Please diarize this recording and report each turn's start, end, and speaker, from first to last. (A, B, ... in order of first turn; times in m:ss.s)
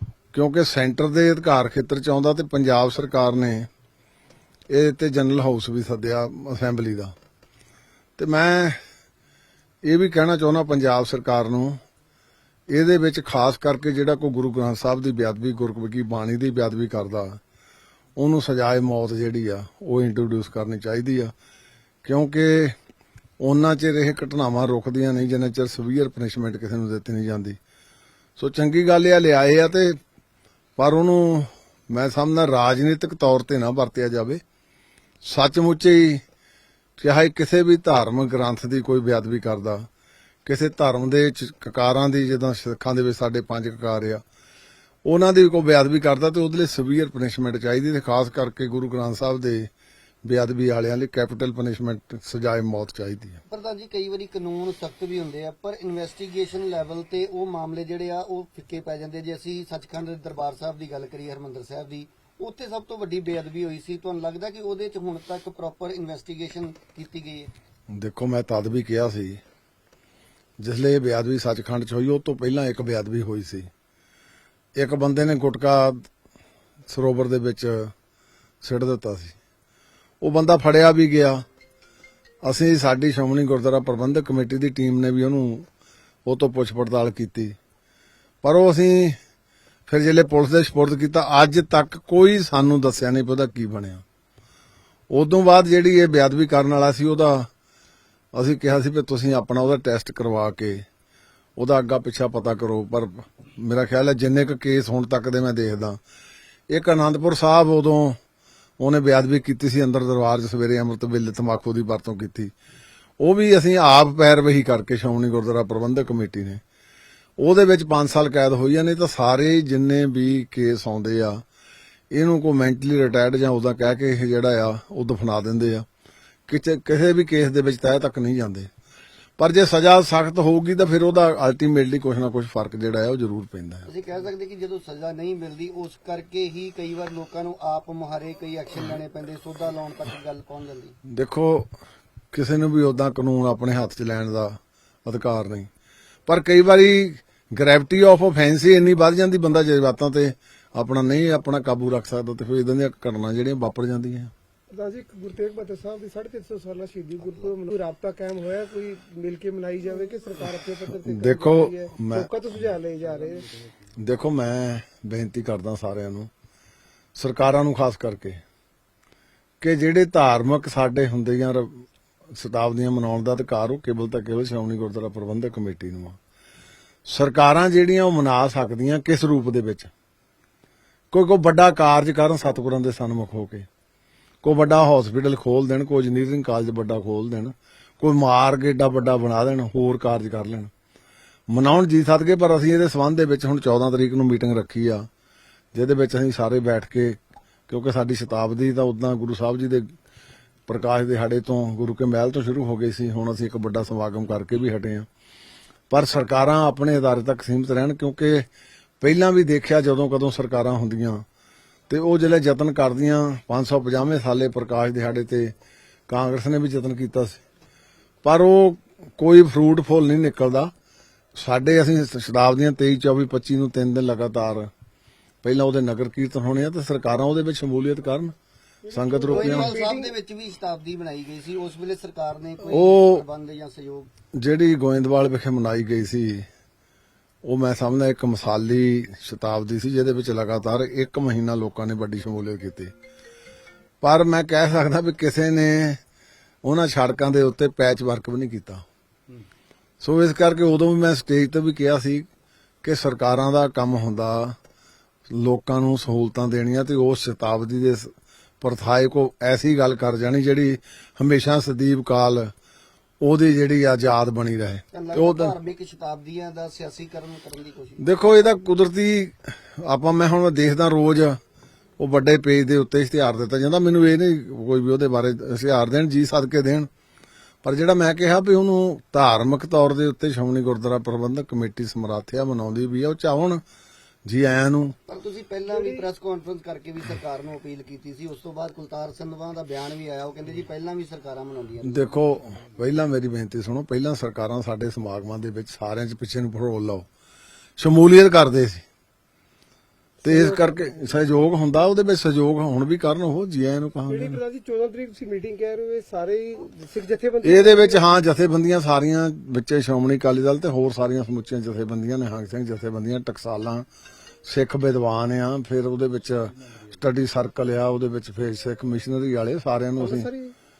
0:00.3-0:03.7 A
0:04.7-0:07.1 A
0:08.2-0:08.8 A
0:09.8-0:11.8 A
0:12.7-0:17.4 A
0:18.2-0:21.3 A
0:22.0-0:22.7 A
0:23.4-0:27.6 A
0:28.4-0:30.0 A
0:30.8-0:34.4 A
0:35.2-0:36.2 A
0:37.0-0:39.9 A
0:40.4-0:44.2 A
0:45.0-0:49.7 A
0:50.2-0:53.4 A
0:53.5-1:07.5 B
1:07.9-1:09.4 A
1:10.6-1:13.7 A
1:14.8-1:16.0 A
1:16.9-1:17.9 A
1:18.6-1:19.4 A
1:20.2-1:21.4 A
1:22.4-1:25.7 A
1:26.2-1:27.6 A
1:28.4-1:29.2 A
1:29.9-1:34.0 A
1:35.1-1:37.5 A
1:38.3-1:40.8 A
1:41.6-1:46.0 A
1:46.7-1:48.2 A
1:48.8-1:52.5 A
1:53.2-1:56.6 A
1:57.4-2:01.4 A
2:02.1-2:05.8 A
2:06.5-2:08.7 A
2:09.4-2:13.9 A
2:13.9-2:21.0 B
2:21.0-2:21.7 A
2:22.3-2:25.7 A
2:26.3-2:34.3 A
2:34.7-2:43.5 C
2:37.2-2:37.5 B
2:41.0-2:42.3 A
2:44.0-2:46.3 A
2:47.1-2:48.4 A
2:49.6-2:56.2 A
2:57.0-2:59.9 A
3:01.1-3:03.6 A
3:04.4-3:10.7 A
3:11.5-3:15.1 A
3:15.7-3:17.2 A
3:17.7-3:19.9 A
3:20.7-3:25.1 A
3:25.9-3:28.5 A
3:29.0-3:31.2 A
3:31.9-3:35.5 A
3:36.1-3:37.4 A
3:38.2-3:40.7 A
3:41.4-3:44.7 A
3:45.4-3:48.3 A
3:48.8-3:50.1 C
3:48.9-3:49.8 A
3:49.3-3:54.1 B
3:52.7-3:53.2 A
3:54.3-3:56.5 A
3:57.4-4:02.9 A
4:04.0-4:06.0 A
4:06.6-4:08.8 A
4:10.0-4:12.3 A
4:12.8-4:14.6 A
4:15.3-4:22.5 A
4:23.2-4:25.5 A
4:24.9-4:28.0 B
4:28.0-4:31.4 A
4:32.0-4:36.9 A
4:37.6-4:43.6 A
4:44.2-4:45.0 A
4:45.1-4:52.2 B
4:45.7-4:46.0 C
4:51.8-4:57.0 A
4:57.8-4:58.8 A
5:00.2-5:00.8 C
5:00.2-5:04.4 A
5:04.1-5:08.1 C
5:07.4-5:13.8 A
5:14.4-5:20.3 A
5:20.0-5:20.5 C